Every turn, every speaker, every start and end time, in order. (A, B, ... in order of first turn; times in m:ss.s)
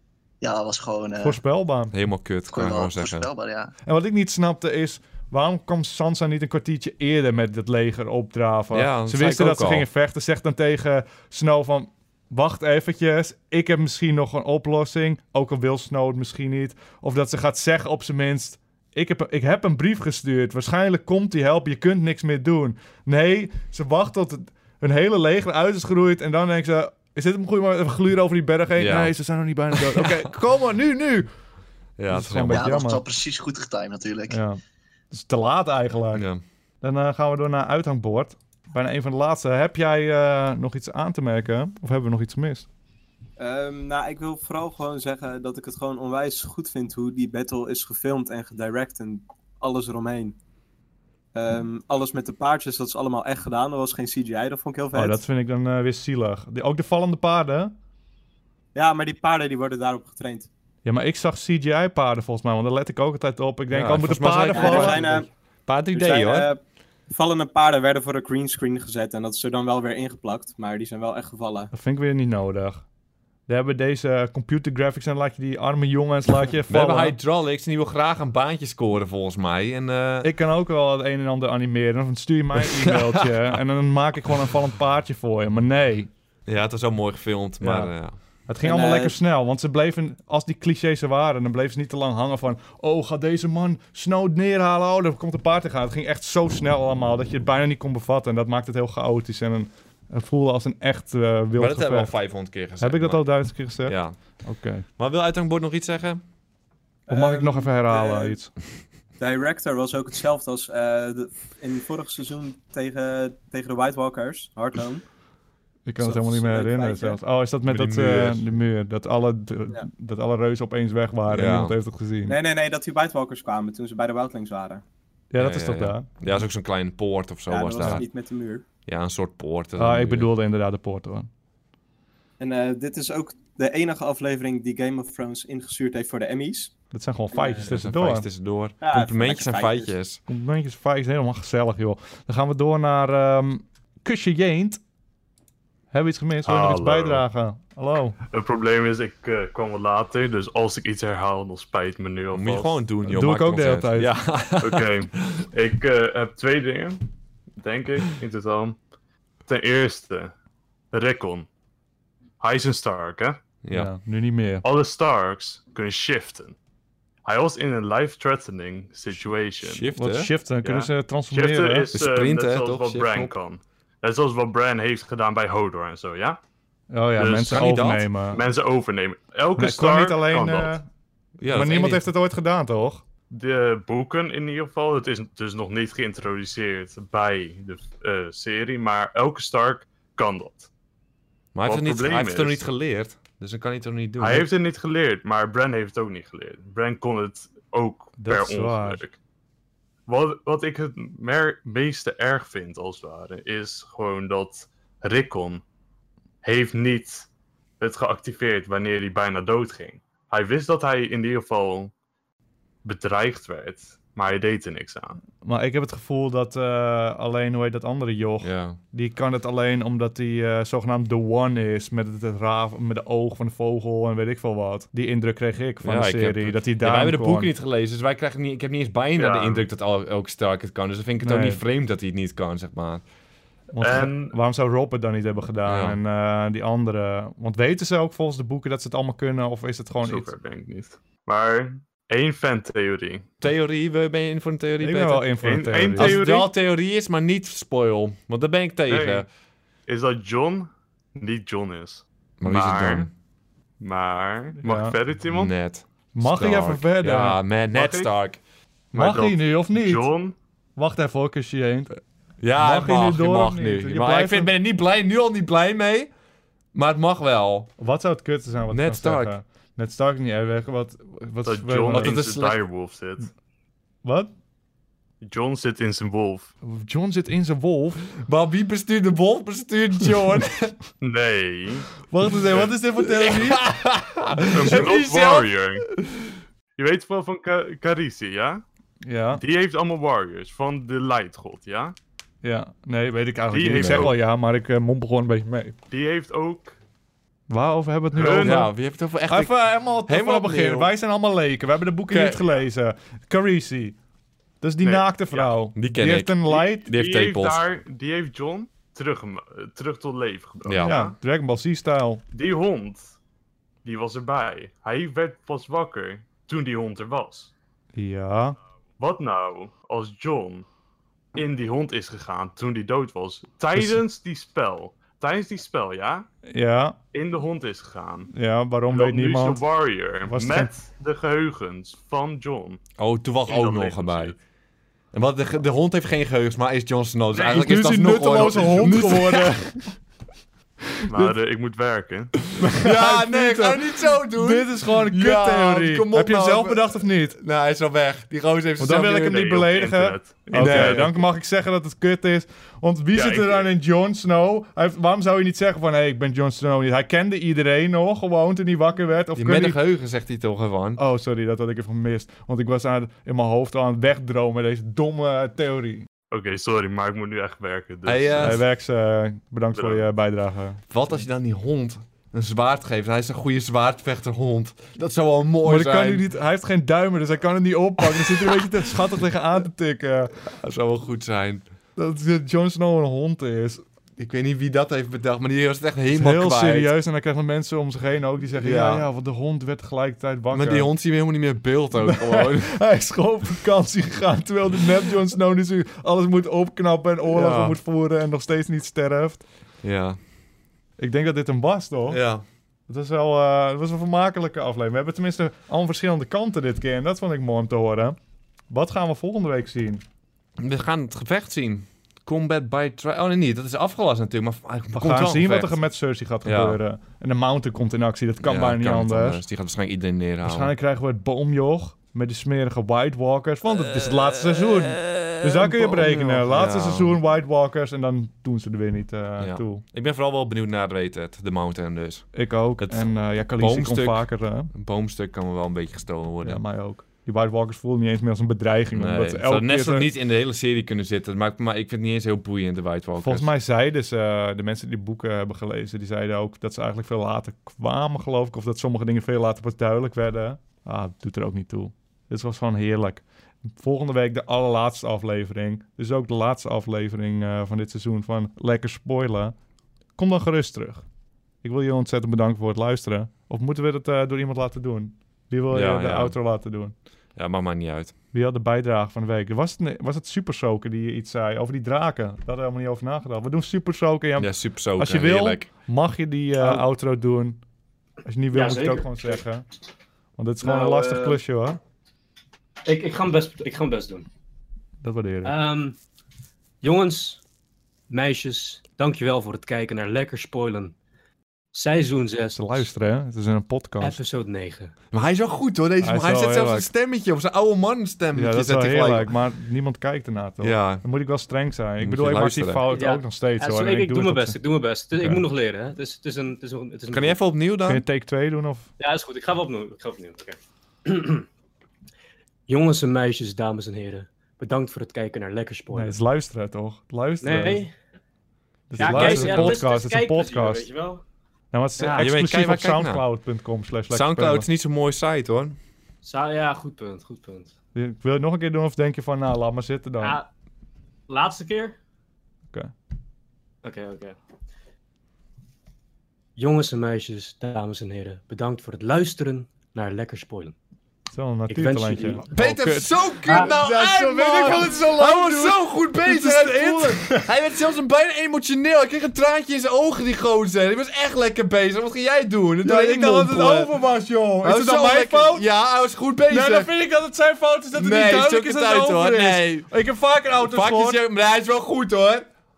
0:00.4-0:01.4 A
0:01.2-0:01.9 B
0:01.9-0:03.3 C
0:02.5-0:03.7 A
0:03.9-0:31.3 B
0:08.7-0:09.9 C
0:28.8-0:29.1 C
0:29.7-0:30.3 C
0:32.0-0:32.7 C
0:32.1-0:33.0 B
0:32.5-0:34.4 A
0:34.3-0:34.6 B
0:35.1-0:36.2 B
0:36.2-0:36.4 C
0:36.8-0:42.7 B
0:43.4-0:50.4 D
0:51.4-0:55.2 D
0:54.9-0:57.7 B
0:58.8-1:00.5 D
1:00.8-1:05.0 B
1:03.7-1:06.5 C
1:04.5-1:05.3 D
1:05.9-1:11.7 D
1:11.7-1:12.8 B
1:13.5-1:17.2 B
1:16.7-1:20.3 C
1:20.2-1:26.1 B
1:26.5-1:28.2 C
1:27.6-1:42.2 B
1:28.6-1:29.2 D
1:41.6-1:44.4 C
1:42.8-1:44.8 B
1:45.0-1:46.2 C
1:47.1-1:48.4 D
1:47.1-1:48.5 B
1:49.2-1:55.0 D
1:55.9-2:02.4 B
1:56.0-1:57.2 D
1:57.7-1:58.6 C
2:01.3-2:01.7 C
2:02.3-2:04.8 D
2:05.3-2:06.1 B
2:05.4-2:08.1 C
2:07.5-2:08.6 D
2:08.9-2:10.3 C
2:09.8-2:11.3 B
2:12.4-2:16.7 D
2:16.9-2:18.3 B
2:17.3-2:17.7 D
2:17.6-2:20.2 C
2:18.8-2:20.0 D
2:20.3-2:24.8 B
2:25.9-2:28.2 B
2:26.4-2:27.2 E
2:28.3-2:32.8 E
2:32.3-2:35.4 C
2:33.0-2:34.1 B
2:34.6-2:37.1 E
2:37.6-2:38.8 E
2:39.5-2:40.3 E
2:40.9-2:41.5 E
2:42.4-2:43.4 E
2:43.6-2:43.9 C
2:43.7-2:44.6 B
2:44.6-2:46.6 E
2:47.2-2:49.9 E
2:49.6-2:50.3 C
2:50.0-2:52.0 B
2:50.6-2:56.4 E
2:51.9-2:53.4 C
2:56.9-2:58.4 B
2:57.2-2:57.6 E
2:57.4-2:58.1 C
2:58.3-3:00.8 E
2:59.6-3:00.9 B
3:01.4-3:02.0 C
3:01.4-3:03.0 B
3:03.3-3:10.7 E
3:11.5-3:14.5 C
3:11.7-3:12.6 E
3:14.2-3:19.2 E
3:18.2-3:19.0 B
3:20.1-3:25.6 E
3:26.4-3:27.3 E
3:27.8-3:31.9 E
3:32.8-3:35.2 E
3:35.4-3:47.5 B
3:38.4-3:38.8 C
3:45.8-3:53.0 C
3:49.2-3:49.7 E
3:51.2-3:51.6 B
3:53.7-4:00.3 B
3:53.8-3:54.4 E
3:55.7-3:56.0 C
4:00.0-4:03.3 E
4:03.4-4:05.3 C
4:04.8-4:06.3 B
4:05.4-4:06.5 E
4:05.9-4:09.3 C
4:08.9-4:09.3 E
4:09.9-4:13.1 E
4:12.4-4:13.1 C
4:13.8-4:15.5 E
4:14.6-4:15.0 B
4:15.2-4:18.4 C
4:16.2-4:17.4 B
4:17.7-4:18.1 E
4:18.9-4:20.1 B
4:18.9-4:20.4 E
4:20.8-4:21.9 B
4:22.4-4:26.1 C
4:22.6-4:24.5 B
4:26.7-4:27.7 C
4:27.8-4:32.2 B
4:28.7-4:29.3 C
4:31.4-4:33.3 E
4:31.9-4:32.6 C
4:34.0-4:34.3 B
4:35.2-4:36.5 E
4:36.6-4:38.0 B
4:38.2-4:40.8 C
4:41.0-4:41.9 E
4:42.1-4:43.6 B
4:43.0-4:46.1 C
4:44.4-4:45.0 B
4:44.6-4:45.8 E
4:46.8-4:48.6 E
4:49.0-4:49.4 B
4:49.4-4:52.0 E
4:52.4-4:55.8 B
4:53.5-4:54.2 E
4:53.6-4:54.1 C
4:55.9-4:56.8 E
4:57.5-4:58.8 B
4:58.1-4:58.7 E
4:58.2-5:00.9 C
4:59.3-5:04.0 B
5:02.1-5:02.4 C
5:04.6-5:06.9 B
5:04.8-5:05.6 E
5:05.7-5:07.6 C
5:06.5-5:11.2 E
5:10.6-5:11.0 C
5:10.8-5:12.2 B
5:12.3-5:13.2 E
5:13.8-5:17.5 E
5:18.0-5:18.6 B
5:19.0-5:20.7 E
5:21.4-5:26.3 E
5:23.8-5:24.0 B
5:26.5-5:27.0 B
5:27.1-5:28.3 E
5:28.3-5:29.6 B
5:28.9-5:32.8 E
5:30.2-5:30.7 B
5:33.0-5:34.4 C
5:33.5-5:34.4 E
5:35.1-5:39.7 C
5:37.4-5:39.9 B
5:38.4-5:38.8 E
5:41.1-5:42.3 E
5:42.6-5:47.4 B
5:42.6-5:49.4 C
5:48.8-5:59.8 B
5:49.2-5:51.1 E
5:50.5-5:51.2 C
5:53.1-5:53.7 E
5:59.4-6:01.0 C
6:01.0-6:06.1 B
6:06.3-6:08.6 E
6:08.0-6:08.6 C
6:08.4-6:11.2 B
6:09.8-6:10.1 E
6:10.9-6:16.2 C
6:15.6-6:20.4 B
6:20.5-6:21.6 C
6:22.0-6:23.8 B
6:24.2-6:26.9 C
6:26.2-6:30.9 B
6:28.6-6:29.1 C
6:30.5-6:32.8 C
6:32.1-6:39.4 B
6:37.3-6:37.8 C
6:39.8-6:40.2 C
6:41.0-6:42.2 B
6:42.1-6:42.4 C
6:42.9-6:48.2 B
6:48.7-6:50.0 B
6:50.6-6:55.8 C
6:54.9-6:59.4 B
6:56.4-6:56.8 C
6:58.4-7:00.7 C
7:00.4-7:09.8 B
7:05.1-7:07.2 C
7:09.4-7:16.6 C
7:12.3-7:14.7 B
7:16.4-7:20.1 B
7:19.0-7:23.5 C
7:23.2-7:33.2 B
7:33.8-7:39.6 B
7:40.2-7:41.0 B
7:41.6-7:46.9 B
7:45.7-7:46.4 C
7:47.4-7:48.1 C
7:48.3-7:57.6 B
7:54.4-7:55.7 C
7:58.3-7:59.6 B
7:58.5-7:59.4 F
8:00.4-8:01.8 B
8:00.6-8:01.4 F
8:02.8-8:04.3 F
8:05.0-8:05.5 B
8:05.4-8:06.0 F
8:06.8-8:07.4 F
8:08.1-8:10.9 F
8:11.7-8:12.8 F
8:12.6-8:14.2 B
8:14.0-8:14.9 F
8:15.1-8:19.3 C
8:16.0-8:16.9 B
8:18.3-8:24.6 B
8:20.6-8:21.0 C
8:22.0-8:22.9 C
8:22.9-8:27.4 F
8:25.2-8:25.4 B
8:27.1-8:28.0 C
8:27.9-8:28.9 B
8:29.0-8:31.5 F
8:32.7-8:36.2 F
8:35.9-8:37.9 B
8:37.4-8:37.9 F
8:38.9-8:40.9 B
8:39.0-8:41.2 F
8:39.0-8:39.8 C
8:41.7-8:44.7 B
8:42.2-8:43.3 C
8:44.1-8:45.8 C
8:46.2-8:47.7 F
8:48.0-8:50.4 B
8:50.2-8:50.5 F
8:51.3-8:52.0 F
8:53.8-8:54.4 F
8:56.6-9:00.7 F
9:01.3-9:07.5 B
9:01.7-9:02.5 F
9:02.5-9:14.0 C
9:12.8-9:15.7 B
9:14.6-9:16.9 C
9:16.5-9:21.2 B
9:17.9-9:19.9 C
9:20.6-9:22.5 C